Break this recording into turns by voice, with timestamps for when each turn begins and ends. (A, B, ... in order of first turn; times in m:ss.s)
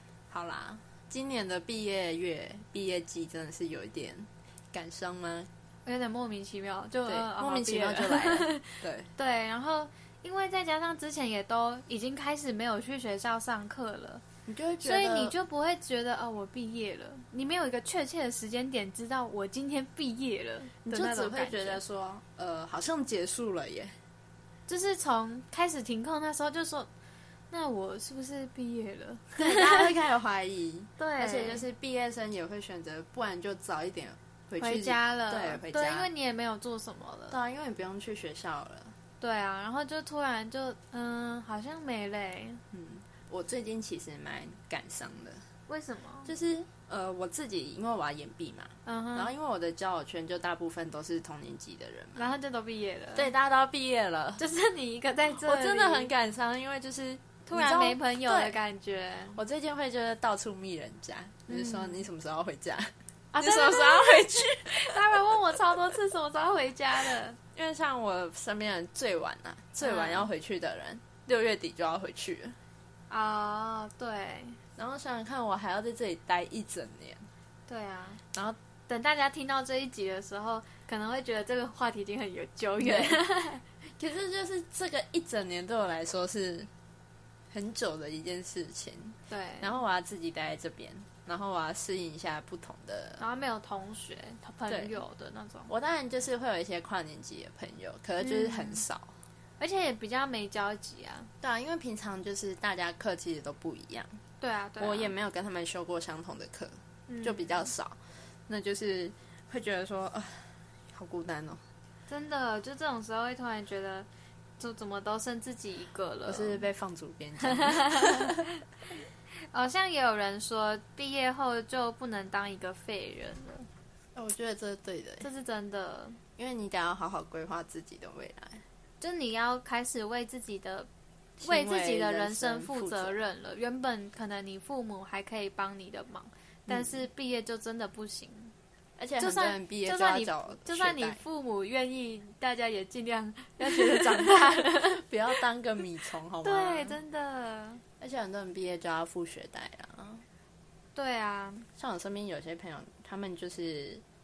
0:00.3-0:05.5 A
0:05.8-0:14.2 B
0:07.0-0:09.1 A
0:14.4-0:15.3 A
0:14.8-0:21.8 B
0:20.9-0:24.0 A
0:24.7-0:26.9 B
0:27.5-0:29.9 B
0:29.3-0:36.1 A
0:31.0-0:31.6 B
0:34.6-0:37.4 B
0:37.3-0:39.0 A
0:39.2-0:42.6 B
0:42.7-0:45.4 A
0:45.7-0:46.3 B
0:46.2-0:52.2 A
0:48.8-0:49.3 B
0:52.2-0:53.3 B
0:53.1-0:54.4 A
0:54.4-0:56.1 B
0:55.3-0:58.6 A
0:57.4-0:59.4 B
0:59.3-1:05.4 A
1:01.5-1:02.0 B
1:03.3-1:07.4 B
1:07.5-1:12.6 A
1:09.8-1:10.3 B
1:13.1-1:14.6 B
1:14.8-1:17.3 A
1:17.7-1:18.2 B
1:18.3-1:18.6 A
1:18.9-1:23.6 B
1:22.8-1:23.2 A
1:24.0-1:26.7 A
1:27.5-1:33.2 A
1:29.3-1:29.8 B
1:33.2-1:35.7 B
1:34.7-1:35.0 A
1:35.7-1:39.1 A
1:38.2-1:38.8 B
1:39.6-1:41.3 B
1:41.4-1:44.2 A
1:44.4-1:45.1 B
1:44.8-1:51.6 A
1:47.1-1:47.7 B
1:52.1-1:54.1 B
1:54.6-1:56.6 B
1:56.3-1:58.4 A
1:57.4-1:58.5 B
1:59.4-2:03.7 B
2:04.1-2:05.3 A
2:05.2-2:06.2 B
2:06.4-2:08.6 A
2:09.0-2:10.9 B
2:11.4-2:13.2 A
2:11.4-2:18.5 B
2:16.7-2:17.0 A
2:19.0-2:21.2 A
2:19.2-2:25.0 B
2:23.6-2:27.0 A
2:26.4-2:27.8 B
2:28.0-2:30.2 A
2:31.0-2:31.7 B
2:31.8-2:34.0 A